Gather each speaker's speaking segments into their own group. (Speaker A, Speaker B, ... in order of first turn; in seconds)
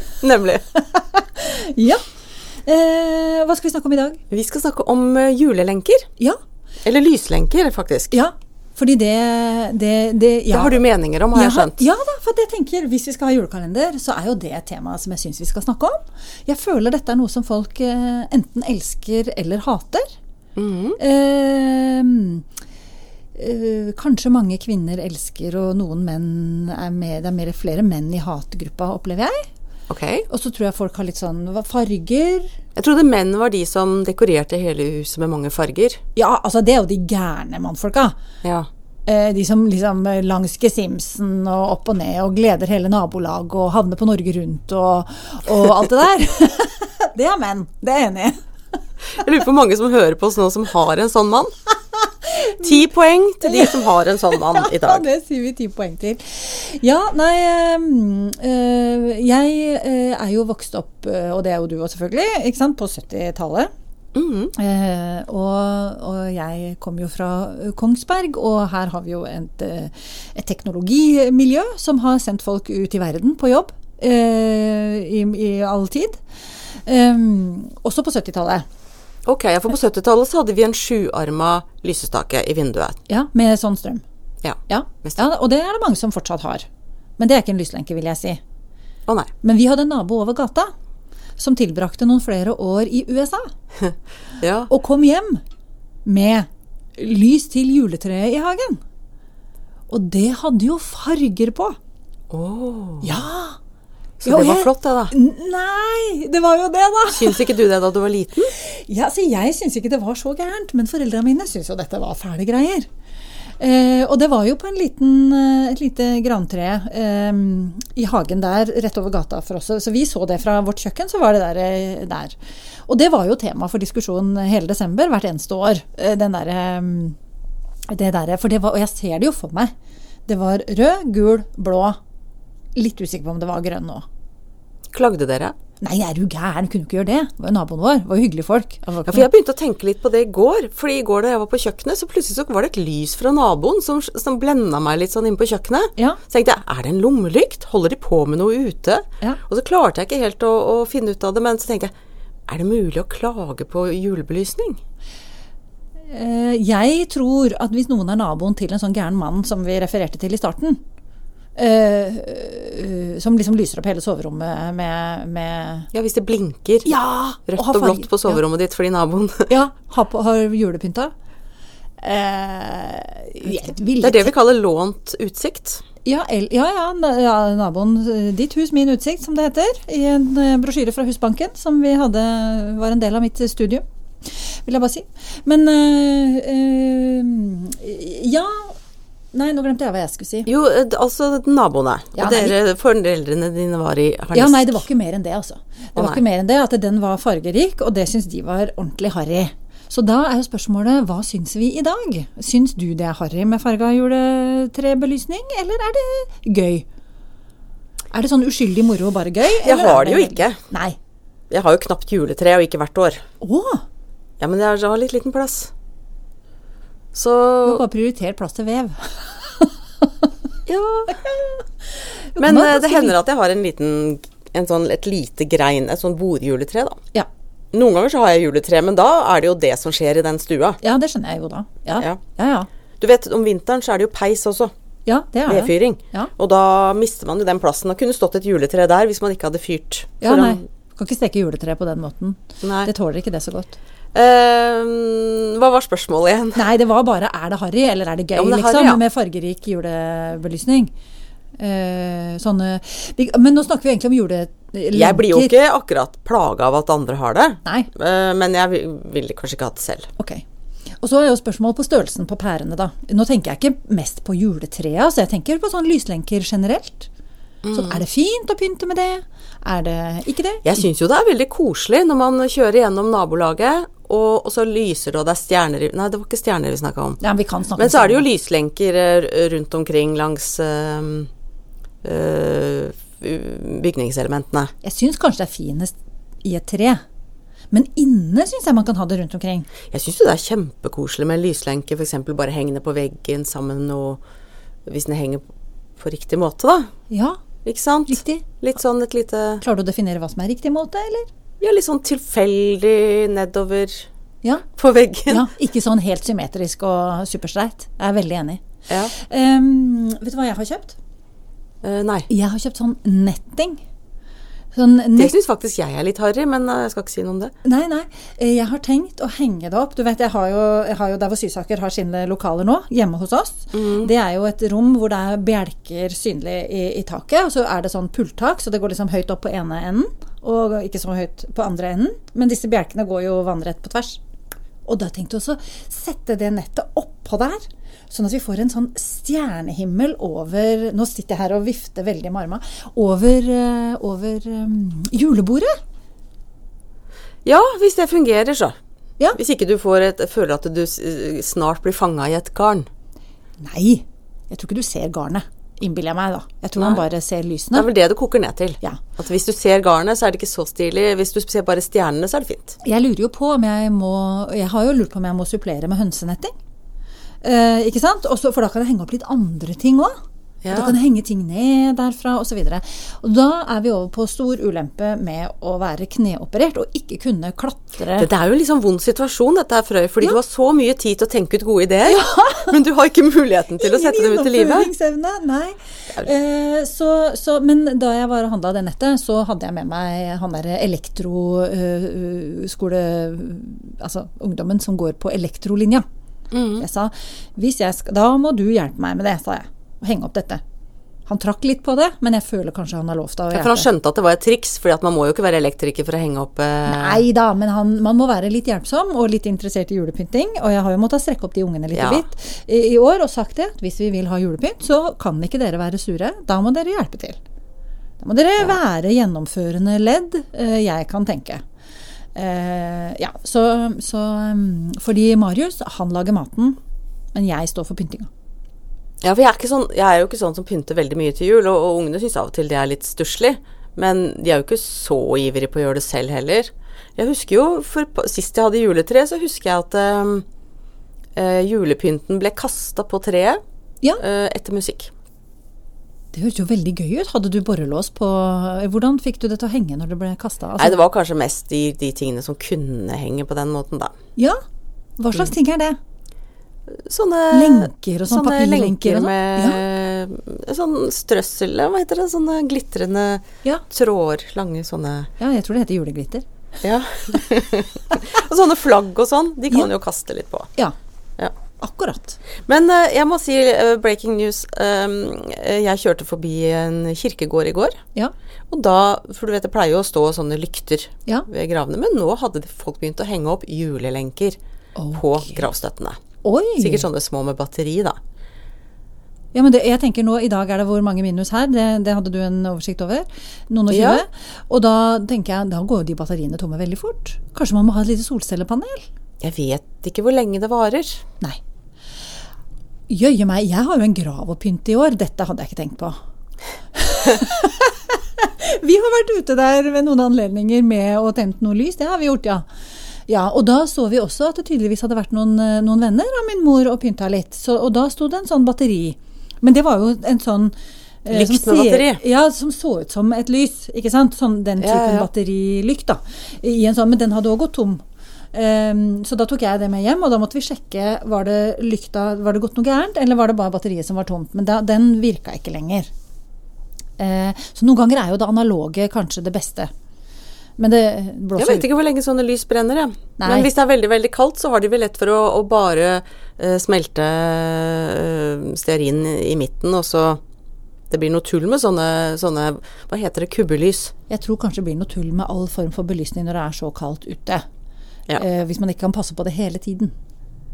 Speaker A: 0.2-0.6, 4.3-6.0, 6.8-8.2, 10.5-11.8, 20.6-21.0, 29.9-30.3, 32.8-36.0, 38.4-38.7, 49.2-51.5, 52.6-55.0, 64.1-64.5, 79.2-83.0, 84.4-85.2, 94.4-94.7, 102.3-103.2, 104.2-105.1, 107.1-108.5, 134.9-135.5, 139.1-151.9, 152.5-154.8, 165.9-166.9, 167.5-169.5, 174.0-175.8, 190.4-194.8, 195.9-196.2, 209.6-210.6, 211.5-213.2, 214.4-215.7, 217.1-217.8, 220.7-221.2, 222.4-227.0, 227.7-230.8, 233.0-234.7, 235.4-240.6, 242.6-242.9, 244.1-246.6, 248.3-249.0, 254.9-260.1, 267.6-268.0, 270.6-277.2, 277.8-281.3, 282.0-284.7, 289.9-294.2, 294.9-295.5, 296.0-296.9, 297.6-299.6, 301.6-304.1, 304.8-305.5, 311.8-312.3, 315.2-317.5, 323.7-324.1, 347.4-348.7, 349.3-352.9, 356.8-357.0, 357.7-362.8, 370.6-371.0, 378.1-384.9, 396.5-396.8, 403.5-407.2, 411.9-412.2, 429.2-440.4, 441.4-443.6, 444.2-445.1, 450.8-454.1, 456.9-465.3, 466.8-470.7, 472.7-478.0, 478.7-484.6, 485.1-486.2, 486.8-488.2, 493.9-494.2, 499.4-501.2, 521.3-522.2, 524.8-525.3, 541.6-550.4, 551.1-554.1
Speaker B: 0.7-2.0, 2.6-4.2, 8.1-10.8, 11.3-20.1, 21.0-22.4, 23.3-29.5, 30.3-32.5, 36.1-38.1, 39.1-48.4, 52.3-52.8, 53.4-63.7, 64.5-76.2, 76.7-78.6, 83.1-84.0, 84.7-86.7, 87.2-88.4, 89.4-90.7, 91.4-93.5, 94.7-95.4, 96.0-98.8, 99.9-101.8, 103.0-103.6, 104.2-107.5, 108.5-112.9, 113.6-122.3, 122.9-127.2, 127.9-129.7, 130.3-132.0, 132.7-134.0, 135.8-139.3, 156.1-160.8, 161.6-165.9, 166.8-168.4, 169.5-171.1, 172.0-174.3, 176.0-183.8, 184.4-188.8, 189.3-190.5, 192.2-192.6, 194.3-206.8, 208.1-210.9, 213.4-213.8, 217.6-219.8, 221.2-223.1, 230.8-232.7, 235.1-236.3, 240.2-243.8, 246.5-250.9, 251.6-255.5, 257.6-257.9, 260.2-260.4, 261.0-267.1, 267.7-270.7, 277.2-278.2, 284.8-287.0, 287.7-289.7, 297.1-297.4, 298.1-298.4, 299.6-301.3, 305.3-311.0, 312.3-313.8, 314.7-315.3, 317.6-334.2, 334.9-345.8, 353.6-357.9, 362.8-366.5, 367.4-370.2, 370.7-378.3, 382.0-382.8, 383.8-396.0, 396.8-400.6, 401.3-403.9, 406.9-417.4, 418.2-421.6, 422.3-426.8, 427.3-428.3, 446.3-451.0, 455.2-456.0, 457.5-459.8, 465.4-466.4, 471.8-472.4, 484.9-485.6, 486.4-487.1, 489.5-499.1, 503.1-506.1, 506.9-512.6, 513.3-520.7, 521.2-536.1, 537.2-539.9, 540.8-541.9, 543.4-543.7, 554.3-557.6, 558.4-560.1